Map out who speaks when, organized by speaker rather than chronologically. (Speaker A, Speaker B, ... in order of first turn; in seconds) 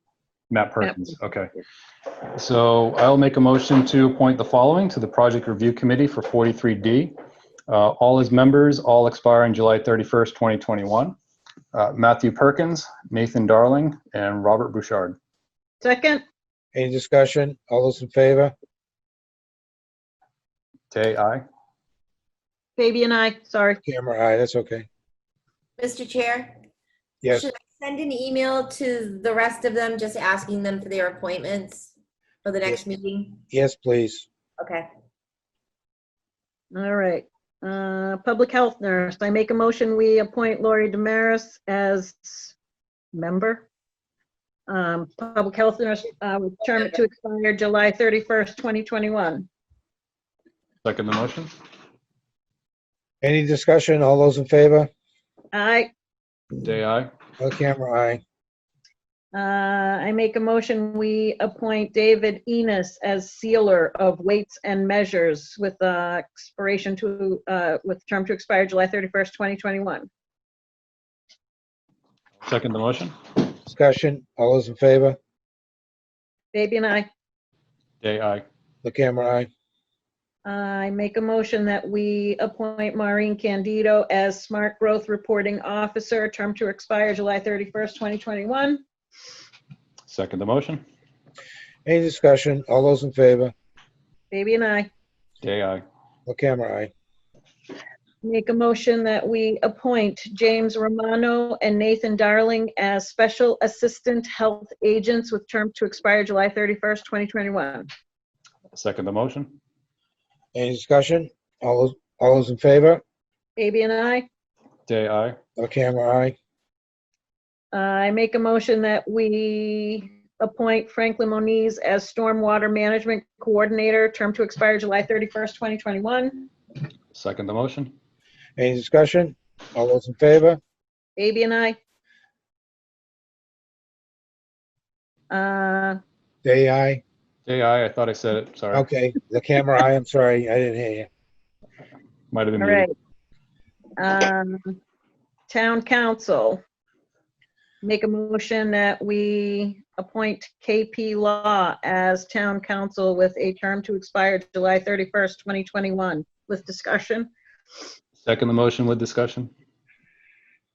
Speaker A: 0.5-1.5, 2.4-7.2, 7.7-11.2, 11.7-15.2, 20.9-21.4, 50.8-51.5, 56.6-57.1, 72.4-73.2, 78.0-78.5, 90.1-90.8, 95.4-95.8, 108.7-109.5, 114.9-115.4, 127.1-127.9, 137.5-138.9, 142.3-142.9, 158.2-159.5
Speaker B: 15.8-16.2, 22.8-23.8, 36.7-42.5, 43.1-43.6, 44.7-49.5, 55.5-55.9, 59.3-70.1, 76.5-77.1, 80.5-88.8, 94.3-94.9, 98.2-107.9, 113.6-114.3, 117.7-126.5, 131.2-131.8, 135.3-136.0, 142.6-142.9, 144.0-144.8, 145.5-146.6, 147.8-157.3
Speaker C: 16.7-18.5, 23.8-24.9, 33.5-34.3, 53.2-54.9, 57.4-58.2, 73.7-75.2, 78.8-79.5, 91.8-93.5, 96.3-96.9, 110.5-113.0, 115.6-116.3, 128.6-130.6, 136.4-137.0, 138.7-141.1
Speaker D: 25.8-26.6, 27.3-31.9, 32.4-33.4, 34.6-34.9